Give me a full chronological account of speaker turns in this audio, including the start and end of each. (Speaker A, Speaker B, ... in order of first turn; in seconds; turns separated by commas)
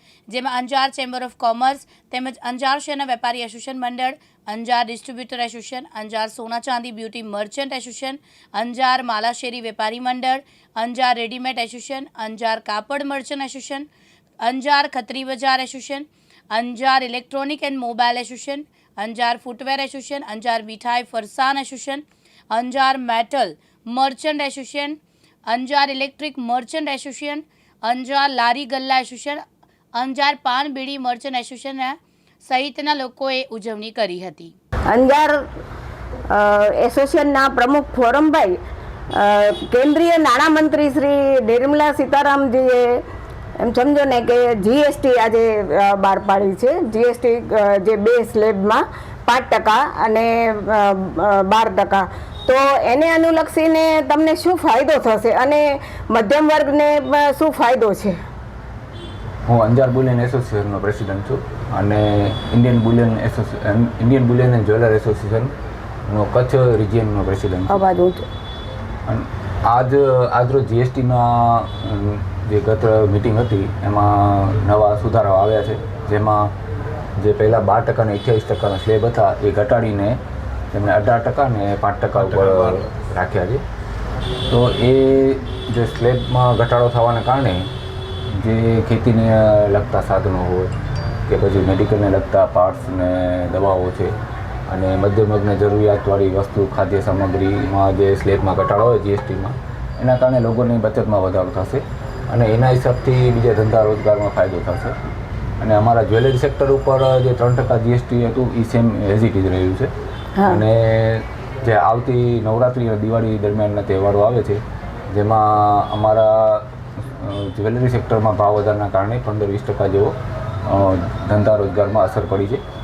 Speaker A: 0.3-13.8, Speaker A: 14.4-29.4, Speaker A: 30.0-34.5, Speaker B: 34.9-35.4, Speaker B: 36.3-38.5, Speaker B: 39.1-43.0, Speaker B: 43.6-58.2, Speaker C: 59.5-65.5, Speaker C: 66.1-67.8, Speaker B: 67.7-68.2, Speaker C: 69.1-76.5, Speaker C: 77.2-80.2, Speaker C: 80.7-83.6, Speaker C: 84.5-87.7, Speaker C: 88.3-90.7, Speaker C: 91.3-94.1, Speaker C: 94.7-105.0, Speaker C: 105.6-109.9, Speaker B: 110.3-110.6, Speaker C: 110.5-122.6